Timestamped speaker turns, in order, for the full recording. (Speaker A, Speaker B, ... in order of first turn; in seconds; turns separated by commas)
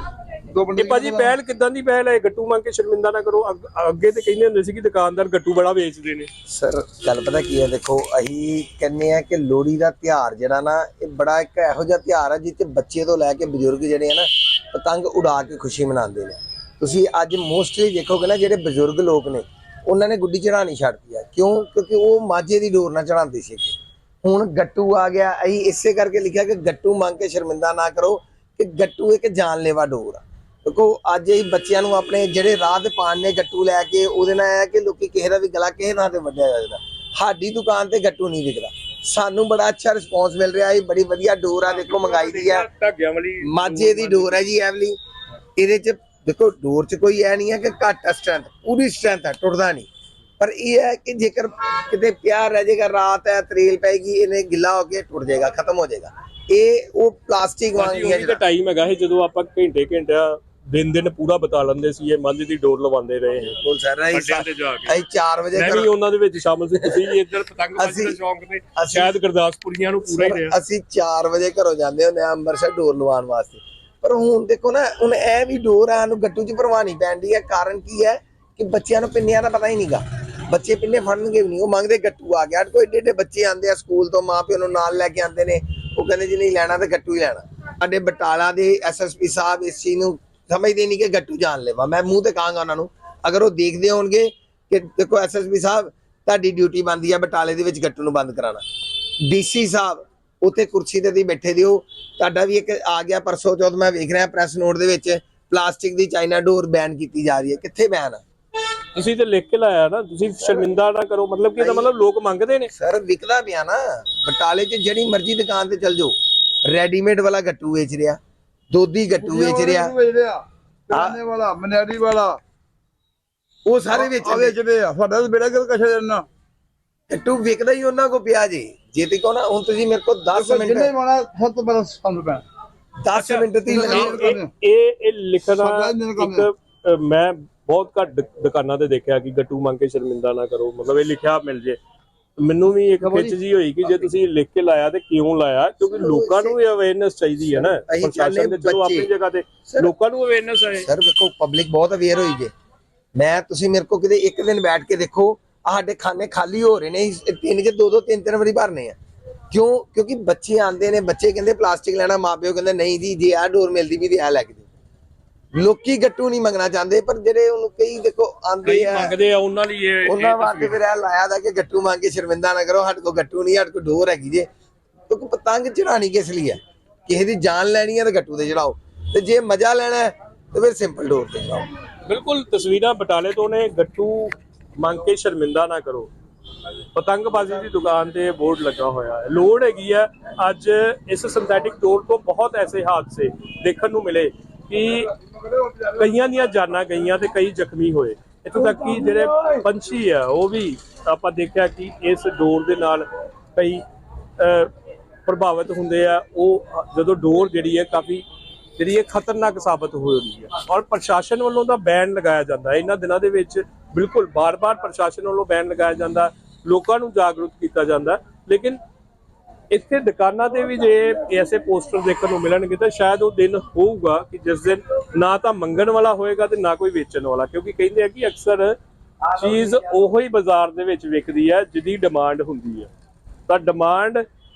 Speaker A: 0.5-1.3, Speaker B: 0.8-6.3, Speaker C: 6.5-42.7, Speaker B: 41.7-44.4, Speaker C: 43.4-45.0, Speaker C: 45.5-49.9, Speaker C: 50.4-58.4, Speaker B: 57.8-63.6, Speaker C: 63.6-65.9, Speaker B: 64.1-65.0, Speaker B: 65.5-70.5, Speaker C: 67.8-68.2, Speaker C: 68.8-69.1, Speaker C: 70.1-98.6, Speaker C: 99.3-108.2, Speaker B: 108.9-112.7, Speaker C: 111.6-111.9, Speaker C: 112.7-118.2, Speaker C: 118.7-119.9, Speaker A: 119.2-122.4, Speaker C: 120.9-121.2, Speaker C: 123.7-124.6, Speaker A: 123.9-126.3, Speaker C: 127.1-130.9, Speaker A: 130.3-132.4, Speaker C: 133.0-134.2, Speaker B: 133.1-141.8, Speaker A: 133.7-134.5, Speaker A: 135.5-136.4, Speaker B: 142.4-150.9, Speaker A: 143.0-143.3, Speaker C: 145.8-146.6, Speaker C: 147.5-149.1, Speaker C: 149.7-149.9, Speaker C: 150.8-152.5, Speaker C: 153.2-158.9, Speaker C: 159.5-164.7, Speaker C: 165.6-169.2, Speaker B: 168.6-170.8, Speaker C: 170.1-174.5, Speaker C: 175.1-181.7, Speaker B: 182.1-186.1, Speaker B: 186.9-195.1, Speaker B: 195.7-203.8, Speaker B: 204.4-204.7, Speaker B: 205.2-208.2, Speaker B: 208.8-218.8, Speaker B: 219.7-228.8, Speaker B: 229.3-232.9, Speaker B: 233.5-234.2